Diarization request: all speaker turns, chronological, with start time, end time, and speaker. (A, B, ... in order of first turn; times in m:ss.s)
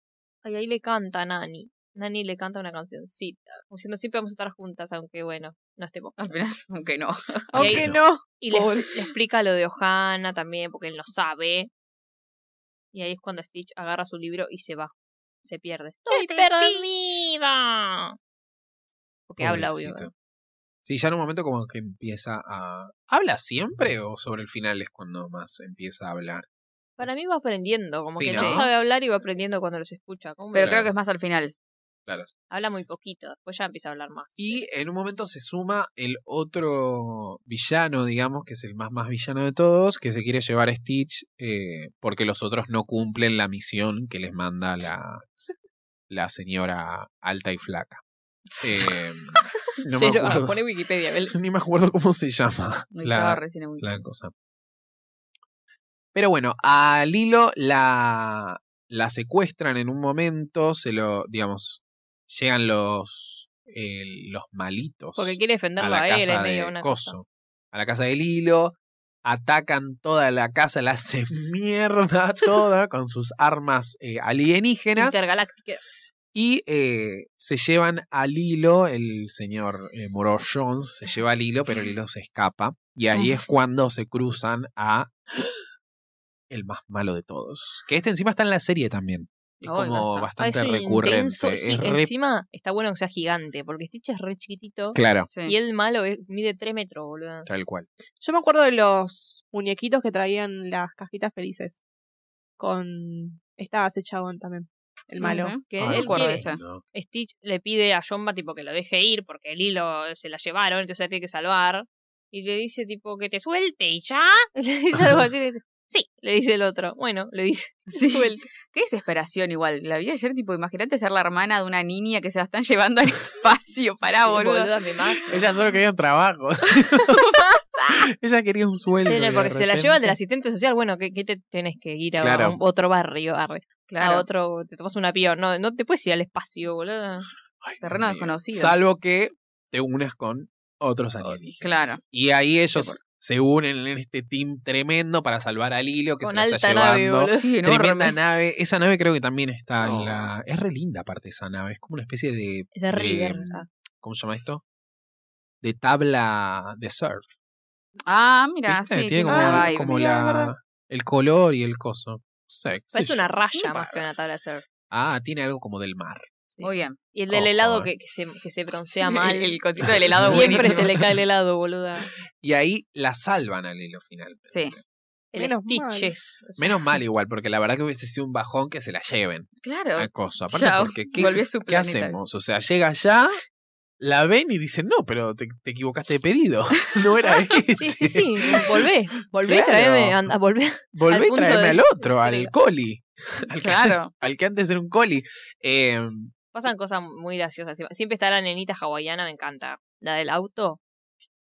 0:00.4-0:06.4 A
0:06.2-0:07.5 B
0:07.5-0:08.9 C
0:07.5-0:11.7 A
0:07.6-0:08.0 D
0:12.9-0:14.9 A
0:15.4-0:18.2 A
0:16.1-0:16.8 C
0:19.3-0:20.1 A
0:19.4-0:20.1 D
0:20.8-0:26.4 D
0:27.0-0:30.8 A
0:28.1-0:28.7 D
0:28.2-0:28.6 B
0:30.5-0:31.5 B
0:30.6-0:30.9 D
0:32.5-0:34.6 A
0:34.4-0:45.2 D
0:46.1-0:48.0 D
0:48.6-0:50.6 D
0:49.8-0:51.4 A
0:51.3-0:54.3 D
0:52.9-0:53.9 B
0:56.1-1:15.2 D
1:05.2-1:07.1 A
1:14.9-1:16.1 A
1:16.3-1:25.1 D
1:23.1-1:23.5 B
1:26.5-1:32.1 D
1:29.6-1:30.3 B
1:30.4-1:37.5 A
1:34.9-1:35.3 D
1:37.4-1:37.8 D
1:38.2-1:41.8 C
1:42.6-1:45.5 C
1:45.2-1:46.6 B
1:45.6-1:58.5 A
1:45.8-1:46.8 D
1:57.9-2:04.7 B
2:04.0-2:05.4 A
2:05.3-2:10.2 D
2:09.0-2:17.3 A
2:12.2-2:12.6 D
2:13.9-2:14.2 B
2:17.6-2:34.6 D
2:17.8-2:18.8 B
2:21.2-2:22.0 B
2:26.2-2:27.5 A
2:27.3-2:28.2 B
2:32.7-2:33.7 A
2:35.6-2:37.3 D
2:38.1-2:39.9 B
2:38.7-2:43.2 D
2:39.2-2:40.5 C
2:42.9-2:44.6 A
2:43.6-2:44.0 B
2:44.9-2:46.3 D
2:46.5-2:49.6 A
2:46.6-2:47.0 B
2:47.3-2:47.9 D
2:48.8-2:50.8 B
2:49.8-2:51.1 D
2:50.2-2:52.1 A
2:52.4-2:54.8 D
2:55.3-2:56.8 A
2:55.4-2:56.1 C
2:56.6-3:03.4 D
2:59.6-3:02.2 B
3:04.0-3:08.9 D
3:07.8-3:12.5 A
3:09.4-3:10.2 D
3:10.9-3:16.3 D
3:13.6-3:14.1 B
3:16.5-3:20.8 A